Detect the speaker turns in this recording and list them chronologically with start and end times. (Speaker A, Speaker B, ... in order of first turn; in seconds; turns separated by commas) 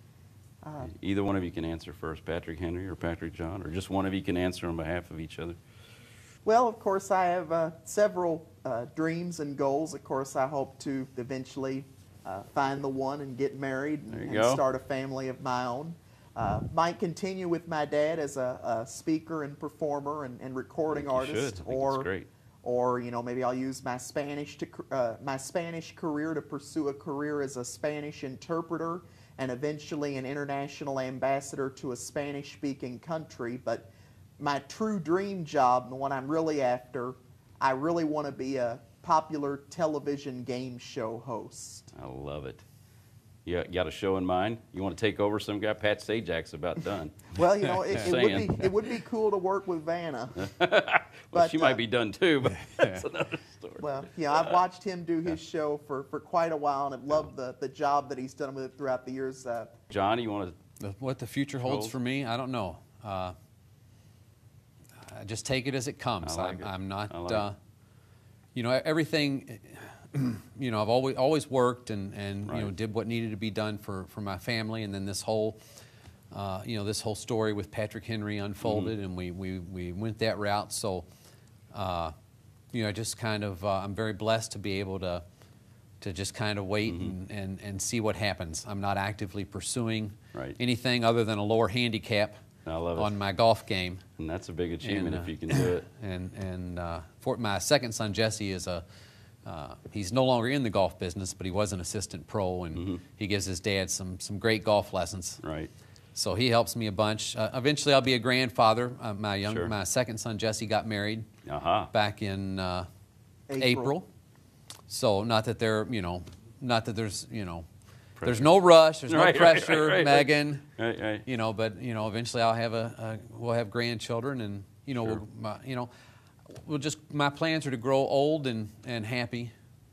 Speaker A: 0.6-0.9, Speaker B: 0.8-5.6, Speaker A: 6.5-22.1, Speaker B: 14.1-14.6, Speaker B: 20.9-22.3, Speaker A: 22.6-41.9, Speaker B: 41.9-42.6, Speaker B: 43.5-47.4, Speaker A: 47.4-50.5, Speaker B: 47.9-48.7, Speaker B: 50.4-54.6, Speaker A: 51.3-51.8, Speaker A: 53.8-59.8, Speaker B: 59.9-60.5, Speaker C: 60.8-63.3, Speaker B: 61.6-62.0, Speaker C: 65.1-67.5, Speaker B: 66.2-67.5, Speaker C: 68.5-75.6, Speaker B: 72.5-72.7, Speaker C: 76.3-81.1, Speaker B: 78.6-78.9, Speaker C: 81.7-82.1, Speaker C: 82.7-85.2, Speaker C: 86.0-92.3, Speaker B: 86.9-87.1, Speaker B: 92.7-93.2, Speaker C: 93.0-94.0, Speaker B: 94.2-95.9, Speaker C: 94.8-98.8, Speaker C: 99.5-105.4, Speaker B: 102.8-103.0, Speaker B: 105.4-105.7, Speaker C: 106.2-111.3, Speaker B: 109.5-109.7, Speaker B: 111.5-111.9, Speaker C: 111.9-112.9, Speaker A: 113.5-114.0, Speaker C: 113.6-114.1, Speaker C: 114.9-117.7, Speaker B: 118.2-121.2, Speaker C: 118.2-120.7, Speaker C: 121.2-125.9, Speaker B: 125.0-125.2, Speaker C: 126.5-129.5